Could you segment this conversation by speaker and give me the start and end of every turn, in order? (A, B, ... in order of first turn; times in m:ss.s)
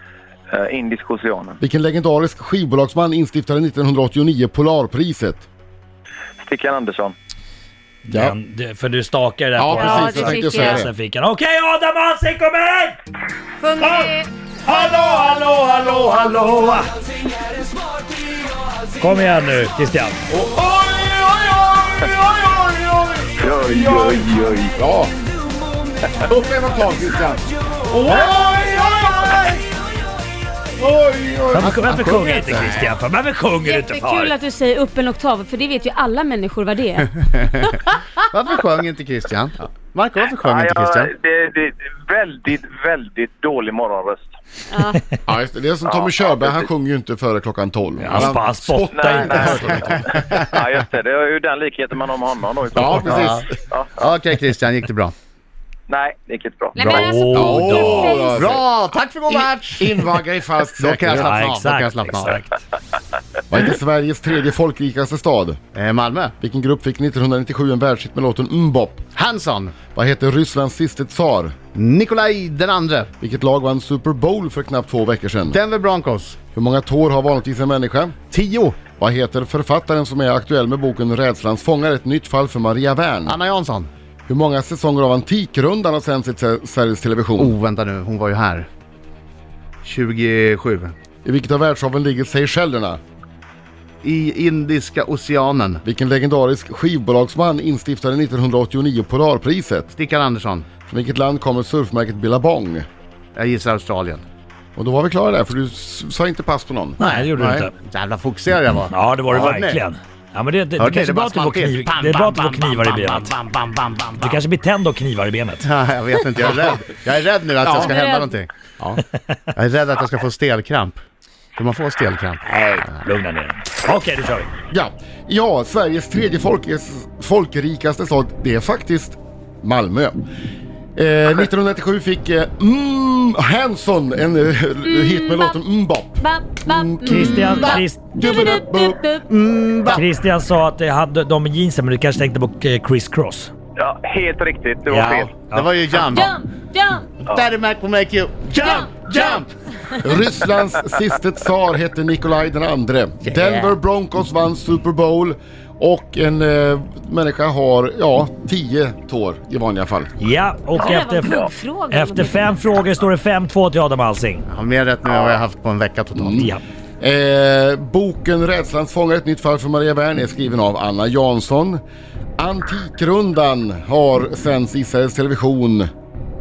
0:00.5-0:01.6 A
0:01.6-0:05.4 B
0:06.4-0:07.1 A
0:08.0-0:13.0 C
0:08.1-0:08.4 B
0:09.6-0:10.9 B
0:09.7-0:10.8 D
0:13.6-0:14.3 D
0:13.8-0:14.1 C
0:14.6-0:16.9 C
0:19.0-0:20.2 C
0:20.3-0:25.1 B
0:23.4-0:24.7 A
0:26.2-0:29.6 B
0:30.8-0:31.9 B
0:31.5-0:34.3 C
0:31.6-0:32.9 E
0:33.6-0:37.9 D
0:37.2-0:41.1 E
0:40.4-0:44.3 A
0:44.7-0:45.0 D
0:45.2-0:50.0 B
0:45.8-0:46.7 A
0:48.0-0:49.9 C
0:48.9-0:54.0 A
0:52.7-0:53.6 B
0:53.0-0:53.4 E
0:54.0-0:55.1 E
0:55.9-0:57.2 A
0:56.8-0:58.4 D
0:56.8-1:00.0 E
0:56.9-0:58.0 C
0:57.3-0:58.6 B
0:59.3-1:01.4 B
1:00.8-1:02.5 E
1:01.2-1:02.4 C
1:03.5-1:05.6 B
1:05.7-1:06.3 E
1:06.4-1:09.0 B
1:09.1-1:09.7 E
1:09.9-1:11.5 B
1:11.7-1:13.1 E
1:13.2-1:15.6 B
1:15.5-1:16.4 E
1:16.5-1:18.1 B
1:18.3-1:18.8 E
1:19.0-1:23.4 B
1:23.2-1:23.9 E
1:24.3-1:27.6 B
1:27.4-1:28.7 E
1:29.8-1:30.9 E
1:31.2-1:33.0 B
1:34.0-1:35.8 E
1:35.8-1:39.9 B
1:39.9-1:40.7 E
1:40.9-1:42.8 B
1:43.4-1:44.2 E
1:44.8-1:47.7 B
1:47.0-1:49.8 E
1:47.0-1:47.7 C
1:48.9-1:53.3 C
1:50.8-1:54.4 E
1:54.2-1:55.6 C
1:55.6-1:58.5 E
1:57.6-1:57.9 B
1:57.8-1:58.4 D
1:59.5-2:01.0 E
2:01.6-2:03.0 E
2:02.4-2:04.5 C
2:04.7-2:10.1 B
2:11.0-2:19.0 B
2:14.8-2:15.6 D
2:16.2-2:19.3 D
2:17.1-2:17.8 E
2:17.1-2:18.2 C
2:19.3-2:20.1 E
2:19.9-2:23.5 C
2:23.8-2:25.3 A
2:24.9-2:25.7 C
2:25.5-2:26.3 E
2:26.1-2:27.2 D
2:27.3-2:29.5 E
2:28.6-2:29.4 D
2:30.0-2:40.1 B
2:33.2-2:33.8 E
2:40.2-2:44.4 C
2:40.7-2:42.6 D
2:40.8-2:41.5 A
2:44.5-2:46.5 E
2:46.2-2:51.8 B
2:46.4-2:46.6 C
2:52.4-2:55.9 B